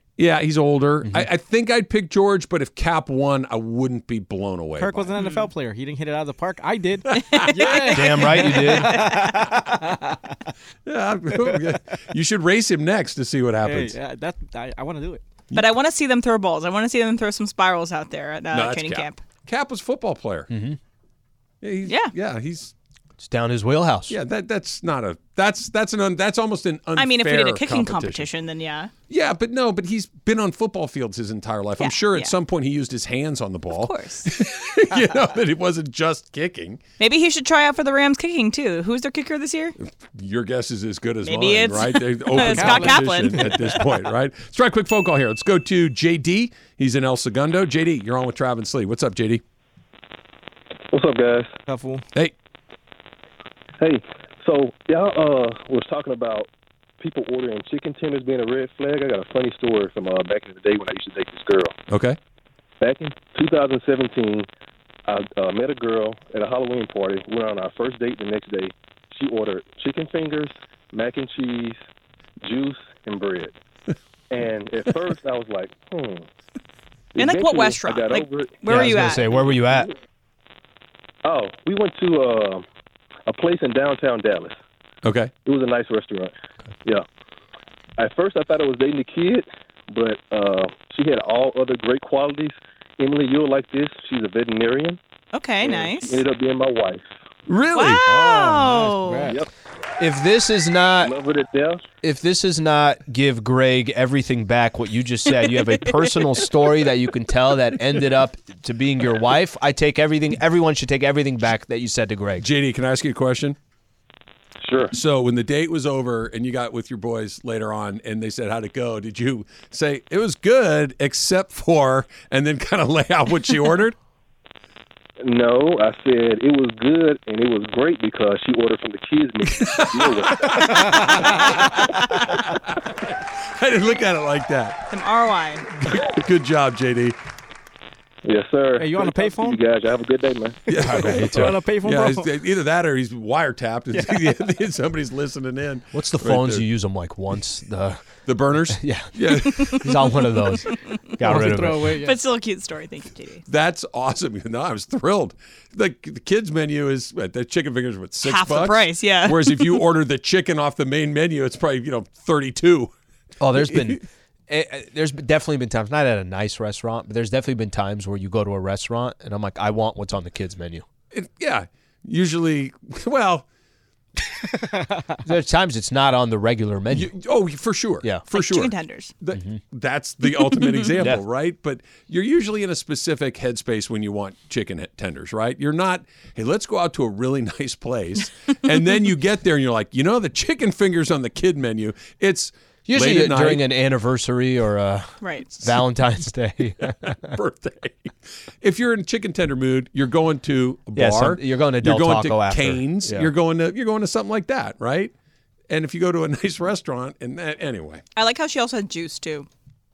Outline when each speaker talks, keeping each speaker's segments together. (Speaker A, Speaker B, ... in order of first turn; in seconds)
Speaker A: 0.2-5.1, 7.1-8.0, 10.8-13.9, 18.5-20.5, 21.6-22.7, 24.1-28.3, 29.1-36.8, 39.8-49.4, 61.9-62.2, 85.0-85.3, 97.5-98.0, 112.4-113.5, 114.9-123.9, 129.4-134.8, 135.8-137.2, 140.7-146.6, 148.2-150.1, 153.5-162.9, 163.5-164.0, 171.1-173.4, 176.9-193.6, 197.0-205.1, 205.7-208.0
Speaker B: 4.8-10.2, 13.6-15.2, 42.4-43.6, 51.7-52.0, 98.0-99.4, 138.8-139.6, 140.9-142.3, 143.9-144.2, 151.2-152.2, 174.6-175.0
Speaker C: 5.2-5.5, 7.1-8.1, 8.7-9.5, 15.5-19.2, 21.9-22.1, 26.9-28.9, 31.8-32.3, 33.7-34.3, 37.0-39.8, 41.2-43.8, 77.2-79.4, 95.3-96.2, 97.7-99.4, 134.9-135.7, 152.0-153.4, 158.2-159.8, 178.3-179.1, 180.3-181.0, 195.2-195.5, 208.2-209.5
Speaker D: 7.9-9.0, 20.5-20.8, 23.2-24.1, 78.7-79.9, 100.0-101.1, 102.0-112.5, 140.8-141.6, 145.9-148.0, 148.8-152.0, 163.4-170.8, 175.2-177.1, 192.8-197.3, 200.9-203.3
Speaker E: 50.9-51.5, 53.8-56.5, 57.0-61.7, 62.8-64.5, 65.1-71.8, 72.4-73.5, 74.3-76.2, 77.1-78.9, 81.2-82.6, 83.3-84.5, 85.4-86.3, 88.0-95.0, 95.6-97.0, 101.0-101.8, 114.6-114.9, 125.2-130.6, 138.2-140.6